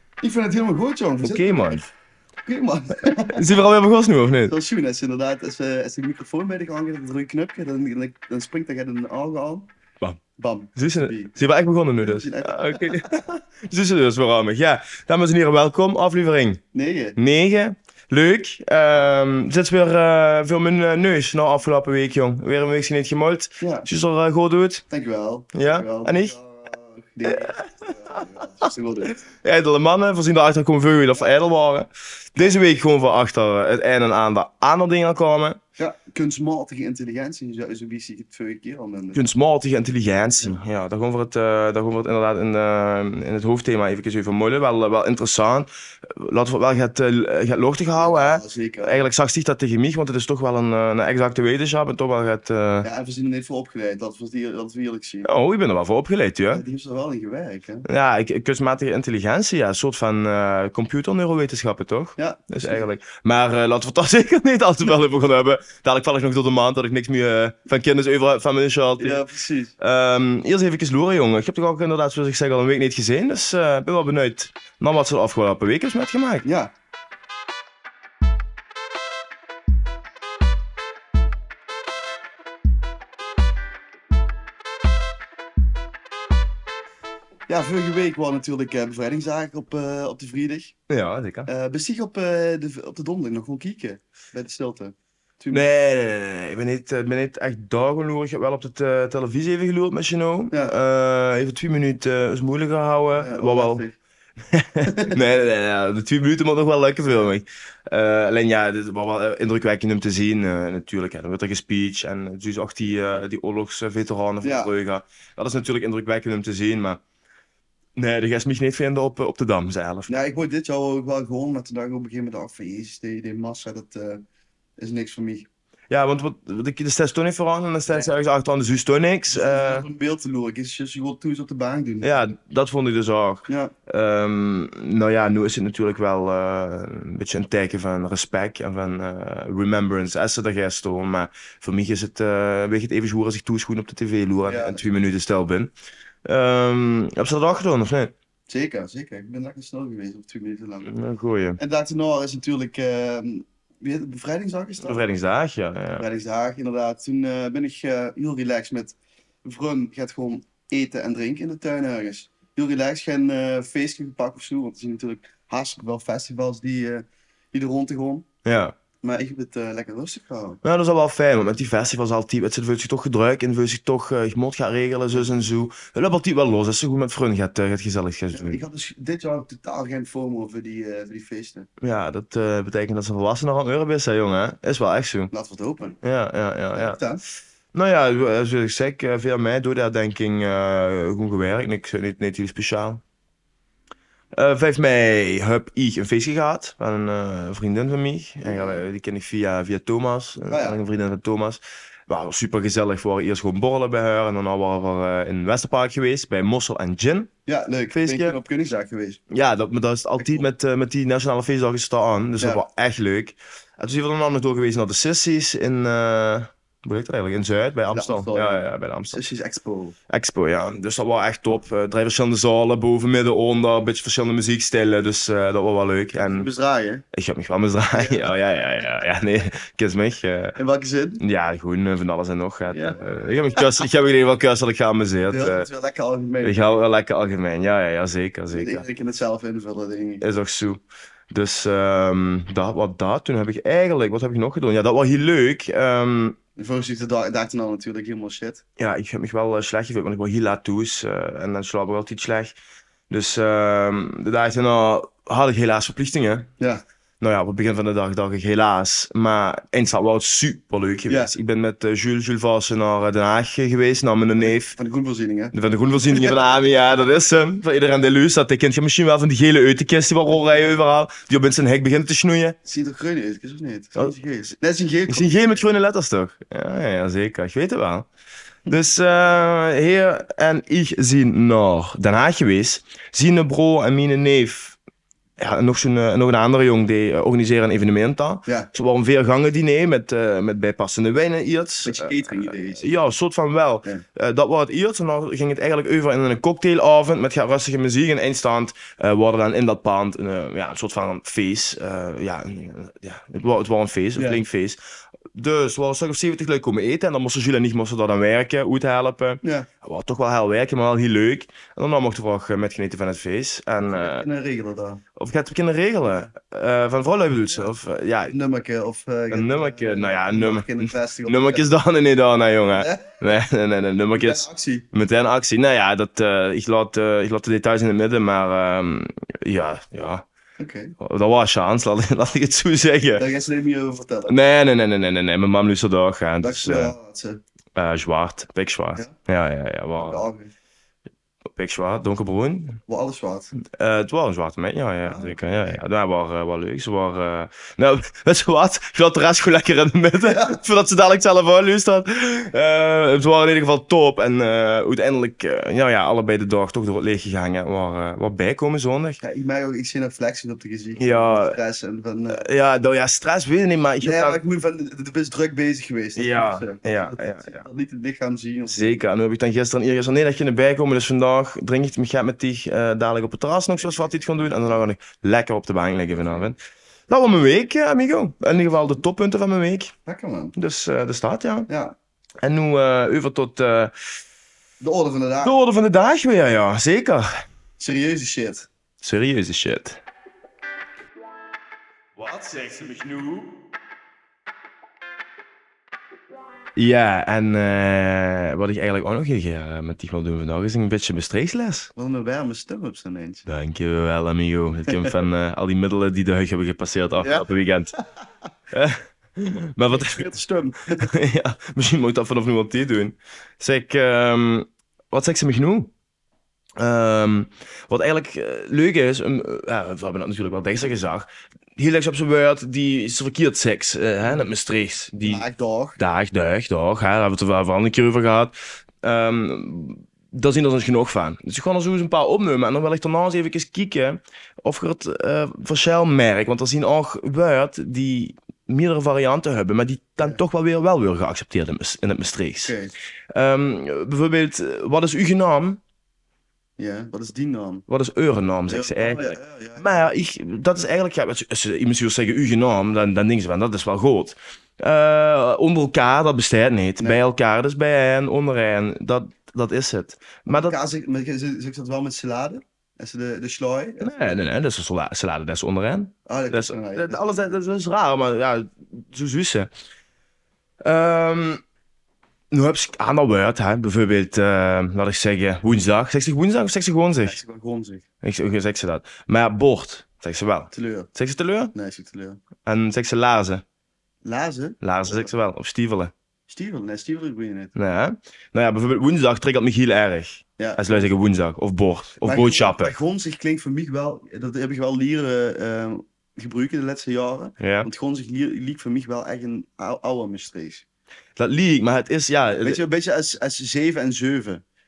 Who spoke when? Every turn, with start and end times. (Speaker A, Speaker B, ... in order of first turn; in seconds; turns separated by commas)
Speaker A: 0.2-1.8, Speaker B: 1.2-1.9, Speaker A: 2.5-3.4, Speaker B: 3.3-4.5, Speaker A: 4.5-9.7, Speaker A: 10.4-11.3, Speaker B: 10.8-16.6, Speaker A: 12.0-13.1, Speaker A: 16.7-17.2, Speaker B: 17.2-24.8, Speaker A: 23.6-23.9, Speaker A: 24.9-29.2, Speaker B: 25.5-26.4, Speaker B: 27.3-35.6, Speaker A: 35.8-39.2, Speaker B: 39.1-52.9, Speaker A: 47.9-49.0, Speaker A: 52.8-55.3, Speaker B: 55.2-56.6, Speaker A: 56.5-57.9, Speaker B: 57.9-69.2, Speaker A: 62.2-62.9, Speaker A: 69.0-69.7, Speaker B: 69.8-76.5, Speaker A: 76.4-76.7, Speaker A: 87.5-90.8, Speaker B: 90.9-91.5, Speaker A: 91.5-95.6, Speaker B: 95.5-103.8, Speaker A: 103.1-104.0, Speaker B: 104.5-117.0, Speaker A: 104.8-105.2, Speaker A: 114.4-114.7, Speaker B: 118.0-120.1, Speaker A: 120.1-124.2, Speaker A: 124.8-125.5, Speaker B: 125.9-129.8, Speaker A: 129.3-132.3, Speaker B: 132.0-145.7, Speaker A: 133.5-133.7, Speaker A: 144.4-144.8, Speaker B: 146.2-148.1, Speaker A: 148.5-150.9, Speaker B: 150.8-151.6, Speaker A: 151.6-155.0, Speaker B: 154.8-156.0, Speaker A: 156.0-168.3, Speaker B: 168.4-168.8, Speaker A: 169.0-170.6, Speaker B: 170.6-178.6, Speaker A: 178.3-181.7, Speaker B: 181.8-185.3, Speaker A: 185.3-186.0, Speaker B: 186.0-187.0, Speaker A: 186.7-187.2, Speaker B: 187.7-193.0, Speaker B: 194.3-207.3, Speaker A: 198.4-198.8, Speaker A: 200.5-200.8, Speaker A: 207.4-209.2, Speaker B: 207.9-208.3, Speaker B: 209.3-219.2, Speaker A: 210.2-210.4, Speaker A: 217.9-219.9, Speaker B: 220.1-226.5, Speaker A: 226.2-227.0, Speaker B: 227.1-230.6, Speaker A: 227.9-228.3, Speaker A: 230.6-231.2, Speaker B: 231.2-235.7, Speaker A: 232.7-233.0, Speaker A: 235.3-236.6, Speaker B: 236.4-238.8, Speaker A: 238.5-240.2, Speaker B: 240.2-246.4, Speaker A: 246.6-248.6, Speaker B: 248.8-252.5, Speaker B: 253.1-256.5, Speaker B: 257.2-264.8, Speaker A: 264.4-265.5, Speaker B: 265.5-272.6, Speaker A: 266.1-266.4, Speaker A: 272.6-275.6, Speaker B: 275.1-278.1, Speaker B: 278.7-284.8, Speaker B: 285.4-304.8, Speaker A: 291.8-293.0, Speaker A: 304.1-304.4, Speaker B: 305.3-314.2, Speaker A: 309.4-309.7, Speaker A: 313.9-315.0, Speaker B: 315.1-318.4, Speaker A: 318.3-321.6, Speaker B: 319.3-330.2, Speaker A: 322.7-323.2, Speaker A: 324.1-324.8, Speaker A: 330.6-330.9, Speaker B: 331.0-333.2, Speaker A: 333.2-334.3, Speaker B: 334.3-336.9, Speaker A: 336.4-337.4, Speaker B: 337.7-340.2, Speaker A: 340.0-340.5, Speaker B: 341.5-342.8, Speaker A: 342.9-343.5, Speaker B: 343.6-359.2, Speaker A: 345.1-345.8, Speaker A: 350.2-350.6, Speaker A: 359.2-362.4, Speaker B: 361.0-361.6, Speaker B: 362.3-364.4, Speaker A: 364.0-368.9, Speaker B: 366.1-367.6, Speaker B: 368.7-376.6, Speaker A: 373.8-374.4, Speaker A: 376.1-376.5, Speaker B: 377.1-379.9, Speaker A: 380.1-380.5, Speaker B: 380.5-381.7, Speaker A: 381.7-381.9, Speaker B: 382.4-383.9, Speaker A: 384.8-385.5, Speaker B: 385.4-387.3, Speaker A: 387.8-388.7, Speaker B: 389.0-390.0, Speaker B: 392.2-393.5, Speaker B: 396.7-401.9, Speaker A: 401.9-403.5, Speaker B: 403.5-407.9, Speaker A: 407.2-407.5, Speaker B: 408.7-410.3, Speaker A: 409.9-411.1, Speaker B: 411.0-415.9, Speaker B: 416.8-425.4, Speaker A: 425.2-426.0, Speaker B: 426.0-442.8, Speaker A: 442.6-442.9, Speaker B: 443.3-445.8, Speaker A: 446.8-447.8, Speaker B: 447.9-460.8, Speaker A: 448.7-450.0, Speaker A: 460.5-464.4, Speaker B: 464.0-469.7, Speaker A: 466.3-467.6, Speaker B: 470.8-471.6, Speaker B: 472.5-477.4, Speaker A: 477.2-478.0, Speaker B: 478.2-481.7, Speaker A: 480.7-481.1, Speaker A: 481.7-482.4, Speaker B: 482.6-483.6, Speaker A: 484.2-485.3, Speaker B: 484.8-486.1, Speaker A: 486.5-487.7, Speaker B: 487.8-492.9, Speaker A: 490.6-491.1, Speaker A: 492.2-500.8, Speaker B: 497.6-497.9, Speaker B: 501.4-502.8, Speaker A: 502.6-504.6